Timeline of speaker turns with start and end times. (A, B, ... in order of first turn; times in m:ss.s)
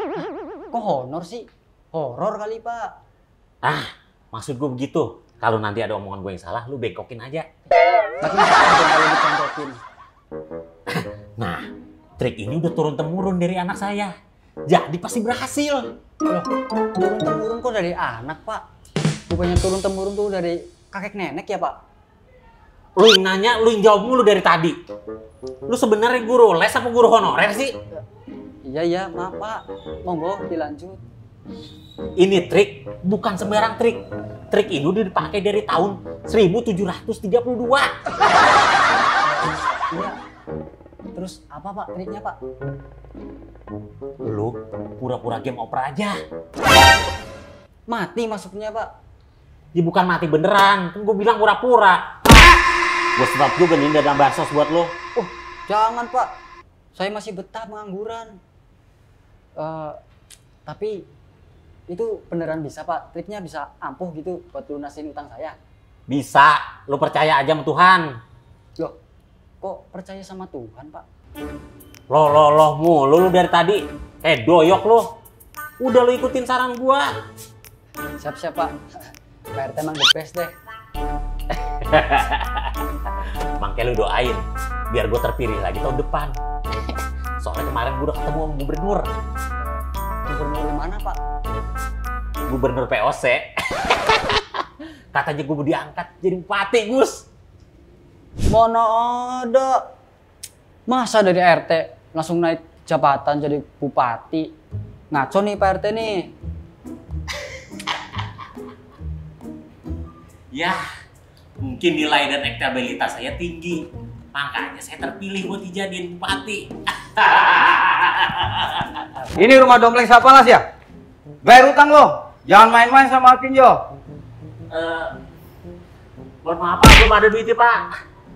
0:00.2-0:02.9 A
0:03.6-0:07.4 B
0:08.2-0:09.8 A
0:10.9-0:11.6 B
0:12.2-0:14.1 B
0:14.7-0:15.9 B
0:16.3-0:18.6 A
0:19.3-0:21.8 A
0:23.0-0:24.8 B
0:25.7-0:27.7 B
0:28.6-0:31.0 A
0:32.2-0:37.9 B
0:41.1-0:42.4 A
0:44.2-0:46.2 B
0:47.9-0:48.9 A
0:49.7-0:52.4 B
0:53.2-0:54.9 B
0:55.2-0:56.3 A
0:56.9-0:58.4 A
0:59.6-1:00.0 A
1:00.6-1:01.0 A
1:01.9-1:05.6 A
1:06.1-1:08.1 B
1:09.6-1:11.0 A
1:12.1-1:15.1 B
1:15.8-1:17.1 B
1:18.2-1:18.8 A
1:19.6-1:20.5 A
1:21.5-1:22.9 B
1:23.6-1:26.3 B
1:26.9-1:29.1 B
1:30.3-1:31.2 A
1:32.5-1:37.2 B
1:38.5-1:39.8 A
1:40.9-1:44.5 A
1:45.1-1:46.3 A
1:50.5-1:50.8 B
1:51.6-1:59.3 B
1:59.4-2:00.6 C
2:01.4-2:03.8 C
2:04.7-2:05.1 B
2:06.4-2:07.9 B